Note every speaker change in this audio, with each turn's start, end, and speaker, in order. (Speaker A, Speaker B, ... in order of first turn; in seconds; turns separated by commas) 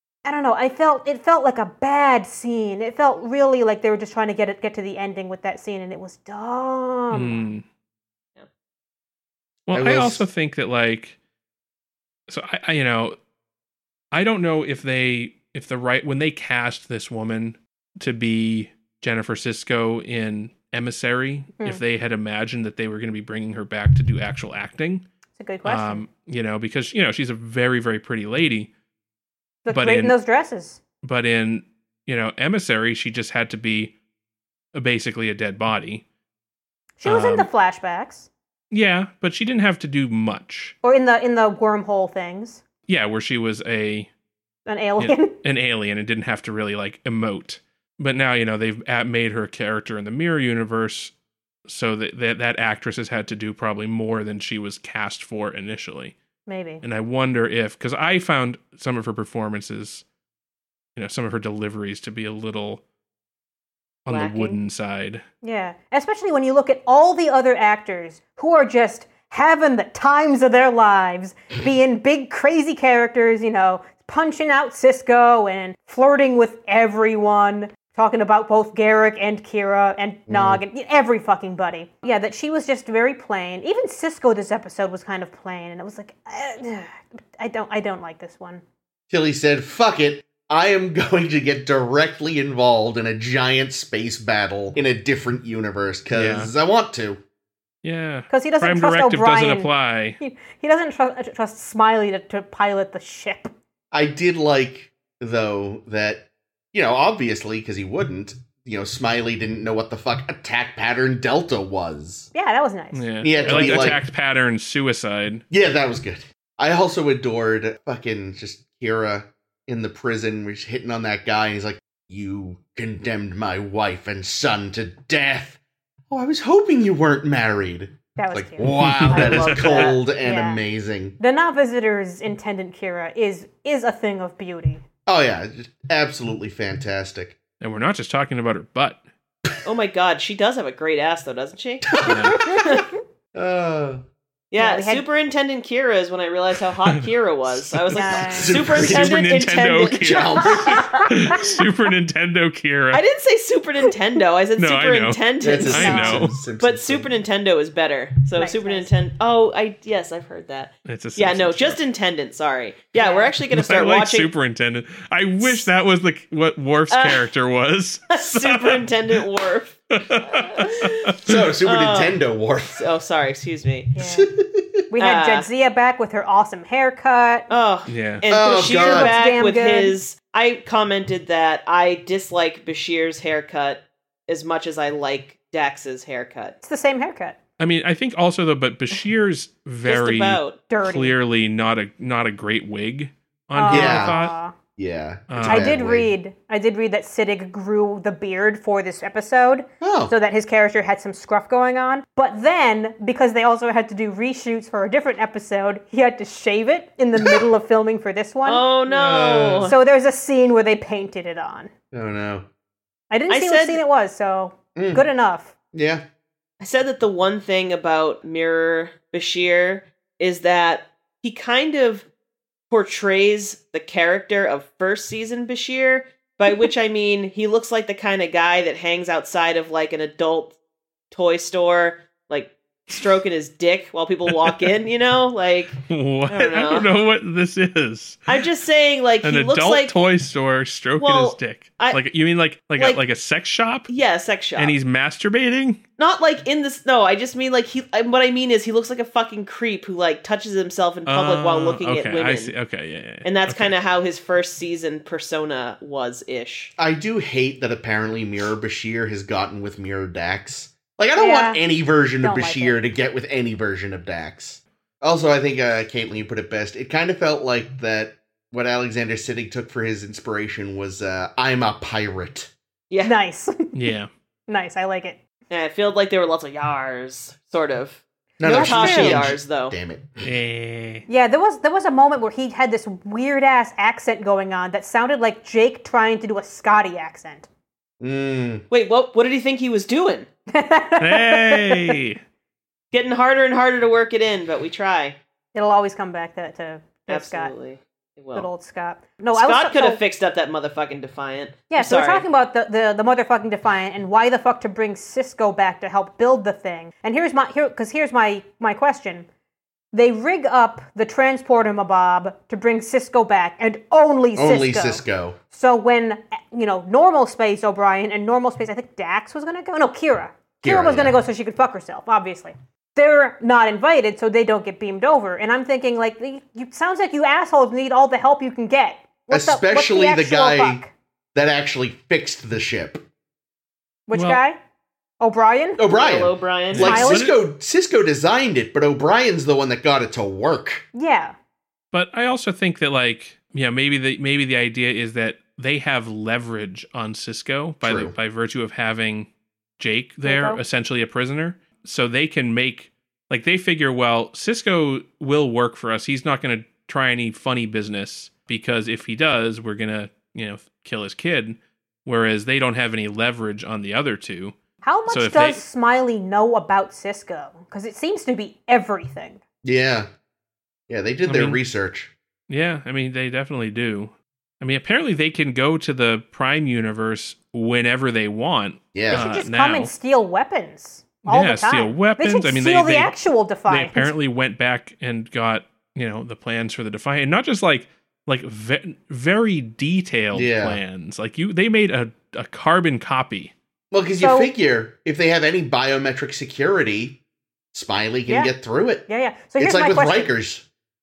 Speaker A: 0.2-7.5, Speaker B: 7.1-7.7, Speaker B: 9.7-11.2, Speaker C: 9.7-10.3, Speaker B: 12.3-13.2, Speaker B: 14.1-25.1, Speaker A: 25.4-26.0, Speaker B: 25.6-28.7, Speaker A: 29.6-30.8, Speaker B: 29.7-30.2, Speaker B: 31.0-33.9, Speaker B: 34.7-36.0, Speaker A: 37.0-38.3, Speaker B: 37.0-37.5, Speaker B: 38.7-40.8, Speaker A: 40.8-42.6, Speaker B: 42.9-44.1, Speaker A: 44.7-45.4, Speaker B: 45.0-51.1, Speaker B: 51.7-56.1, Speaker A: 56.5-56.8, Speaker B: 56.8-60.0, Speaker B: 61.0-62.8, Speaker B: 64.1-65.2, Speaker D: 64.1-64.6, Speaker A: 65.4-88.6, Speaker C: 80.3-80.6, Speaker C: 89.1-97.2, Speaker B: 96.1-96.5, Speaker B: 97.8-100.2, Speaker A: 98.3-103.5, Speaker C: 103.9-112.3, Speaker A: 112.3-114.0, Speaker B: 112.9-115.4, Speaker C: 113.2-114.0, Speaker C: 115.5-125.6, Speaker C: 126.1-131.2, Speaker A: 128.2-128.8, Speaker B: 128.6-129.6, Speaker D: 129.0-130.0, Speaker A: 129.8-130.6, Speaker A: 131.2-134.8, Speaker C: 135.1-137.4, Speaker B: 137.6-139.0, Speaker D: 139.6-142.8, Speaker C: 141.9-142.8, Speaker B: 142.0-142.4, Speaker C: 143.3-144.0, Speaker D: 144.5-150.8, Speaker A: 144.6-145.1, Speaker B: 146.9-153.0, Speaker A: 147.9-148.6, Speaker C: 148.3-149.3, Speaker C: 150.0-151.0, Speaker D: 152.9-164.3, Speaker B: 154.6-156.4, Speaker C: 155.4-157.1, Speaker A: 155.7-156.2, Speaker A: 158.4-158.9, Speaker B: 160.8-161.8, Speaker A: 163.0-163.3, Speaker B: 163.5-169.2, Speaker D: 166.9-167.3, Speaker D: 168.1-172.2, Speaker B: 169.9-171.4, Speaker C: 171.2-172.9, Speaker D: 172.7-174.0, Speaker A: 174.0-174.3, Speaker C: 174.0-174.8, Speaker A: 174.9-177.5, Speaker D: 175.0-175.5, Speaker D: 177.5-186.6, Speaker B: 177.9-178.3, Speaker C: 178.3-179.2, Speaker A: 178.5-180.0, Speaker A: 186.6-187.4, Speaker B: 187.6-194.4, Speaker D: 189.8-190.6, Speaker A: 190.7-191.2, Speaker A: 193.6-194.5, Speaker C: 193.7-194.2, Speaker C: 194.8-196.1, Speaker B: 195.3-195.8, Speaker A: 195.4-208.7, Speaker C: 199.8-200.1, Speaker D: 208.4-209.8, Speaker C: 208.9-209.7, Speaker A: 209.6-211.7, Speaker C: 211.9-212.5, Speaker A: 213.1-215.5, Speaker D: 213.3-213.8, Speaker C: 214.8-215.1, Speaker C: 215.7-216.0, Speaker D: 216.6-222.1, Speaker D: 222.7-230.6, Speaker D: 231.1-236.9, Speaker B: 234.3-234.6, Speaker B: 235.9-238.3, Speaker D: 238.3-240.0, Speaker B: 239.2-243.9, Speaker D: 241.0-242.0, Speaker D: 242.8-243.0, Speaker D: 243.9-244.8, Speaker B: 244.6-245.8, Speaker D: 246.0-252.6, Speaker B: 251.1-253.7, Speaker D: 253.2-256.7, Speaker C: 256.8-272.5, Speaker A: 261.2-261.6, Speaker A: 262.2-262.9, Speaker D: 272.9-273.2, Speaker A: 273.0-273.8, Speaker B: 273.7-274.1, Speaker A: 274.5-275.2, Speaker D: 275.5-279.8, Speaker C: 278.4-280.3, Speaker A: 278.4-279.3, Speaker B: 280.2-281.1, Speaker A: 281.1-287.5, Speaker C: 288.0-288.6, Speaker D: 288.7-290.3, Speaker A: 290.5-291.9, Speaker B: 291.0-292.2, Speaker D: 292.9-295.2, Speaker A: 295.5-297.5, Speaker D: 297.1-298.5, Speaker A: 298.4-300.0, Speaker D: 299.3-302.2, Speaker A: 301.7-309.3, Speaker A: 309.9-330.9, Speaker C: 314.4-315.4, Speaker C: 320.6-321.2, Speaker C: 329.3-330.8, Speaker C: 331.3-333.0, Speaker A: 334.1-334.6, Speaker B: 334.1-334.4, Speaker A: 335.2-335.8, Speaker C: 335.8-340.9, Speaker D: 335.9-337.0, Speaker B: 336.7-337.4, Speaker A: 336.8-337.3, Speaker A: 340.9-341.4, Speaker B: 341.9-365.6, Speaker C: 347.8-348.1, Speaker A: 350.2-350.6, Speaker A: 364.8-369.4, Speaker C: 369.6-370.1, Speaker C: 370.9-372.1, Speaker B: 371.2-371.6, Speaker B: 372.5-379.9, Speaker C: 378.9-379.4, Speaker A: 379.1-384.1, Speaker B: 381.2-383.1, Speaker B: 383.7-393.5, Speaker C: 390.3-390.8, Speaker C: 393.9-397.2, Speaker A: 394.2-394.5, Speaker C: 397.7-399.1, Speaker A: 398.3-398.5, Speaker A: 399.1-400.3, Speaker C: 399.6-400.6